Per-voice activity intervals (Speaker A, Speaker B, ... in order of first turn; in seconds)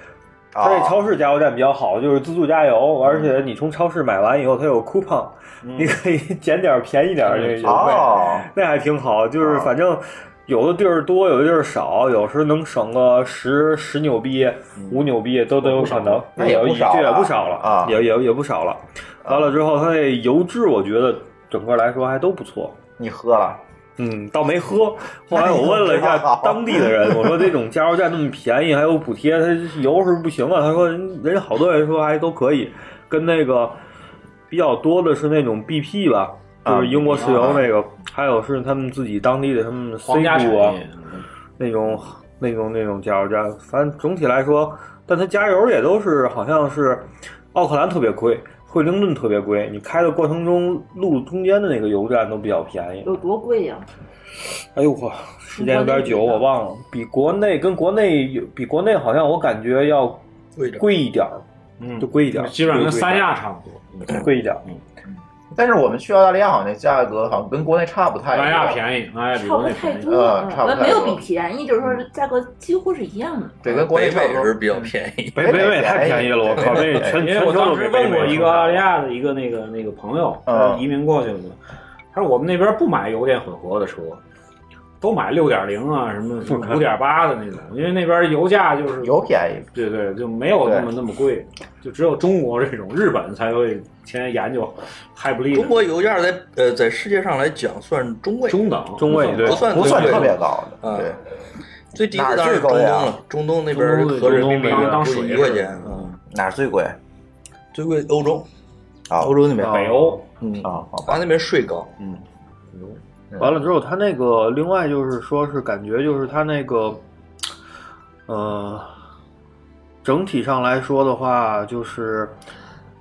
Speaker A: 0.5-1.1, 7.6-8.5, 9.4-9.7, 16.3-18.0, 19.2-19.5, 23.0-23.6, 25.3-27.5, 36.6-37.6, 65.5-68.8, 70.0-71.2, 73.6-77.2, 80.5-80.9, 89.0-89.7, 90.6-90.9, 99.4-101.2, 102.1-103.2, 106.3-107.0, 109.1-109.4, 110.6-111.2
Speaker B: 0.6-22.8, 24.0-33.8, 34.5-40.8, 41.6-53.1, 54.8-60.2, 60.7-61.4, 62.0-63.3, 64.1-64.6, 75.3-78.8, 86.5-86.8, 99.0-100.3, 103.7-105.3, 109.6-110.1, 113.4-117.0, 118.3-118.9, 120.0-122.3
Speaker C: 5.6-6.0, 7.2-8.1, 14.8-15.0, 15.6-16.4, 37.3-37.6, 40.0-41.2, 61.8-64.8, 68.3-70.3, 77.1-81.6, 82.1-84.2, 85.0-89.2, 89.7-95.8, 98.5-100.0, 104.0-106.2, 109.6-110.2
Speaker D: 53.0-53.9, 55.5-56.5, 69.3-73.6
Speaker E: 60.6-60.8, 73.6-75.6, 76.6-76.9, 95.5-101.2, 101.9-106.1, 107.7-108.5, 109.2-111.9